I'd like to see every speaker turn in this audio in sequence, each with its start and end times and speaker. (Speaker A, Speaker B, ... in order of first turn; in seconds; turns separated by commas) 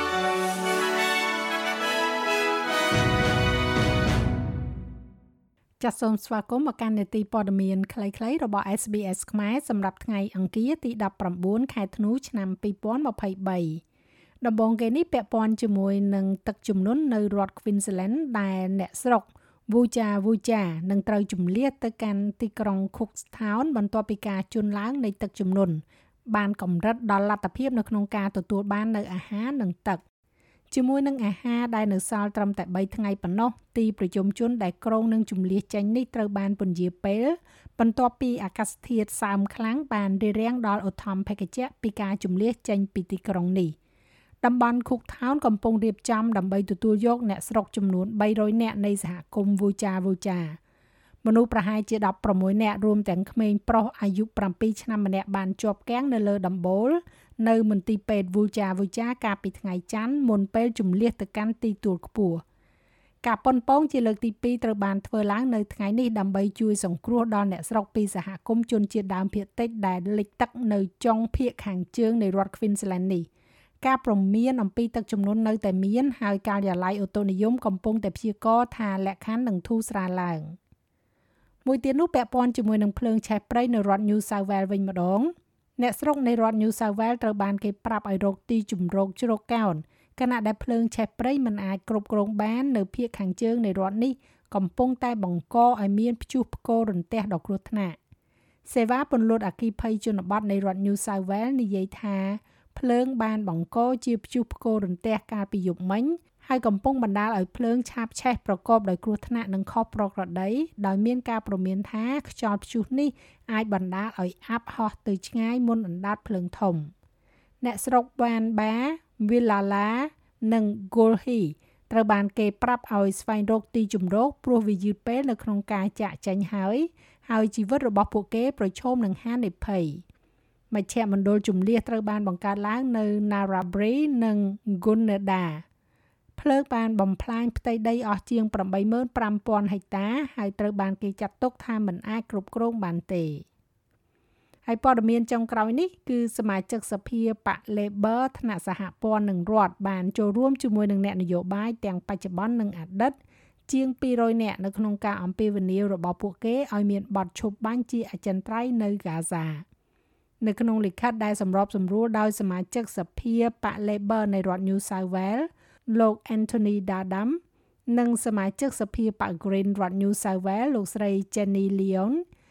Speaker A: 5.8-13.8, Speaker A: 14.4-30.0, Speaker A: 30.7-43.7, Speaker A: 44.4-50.6, Speaker A: 51.2-62.4, Speaker A: 63.2-73.3, Speaker A: 73.8-80.5, Speaker A: 81.6-98.0, Speaker A: 98.6-116.9, Speaker A: 117.6-130.0, Speaker A: 130.7-135.6, Speaker A: 136.4-143.4, Speaker A: 144.6-153.2, Speaker A: 153.7-159.6, Speaker A: 160.4-172.2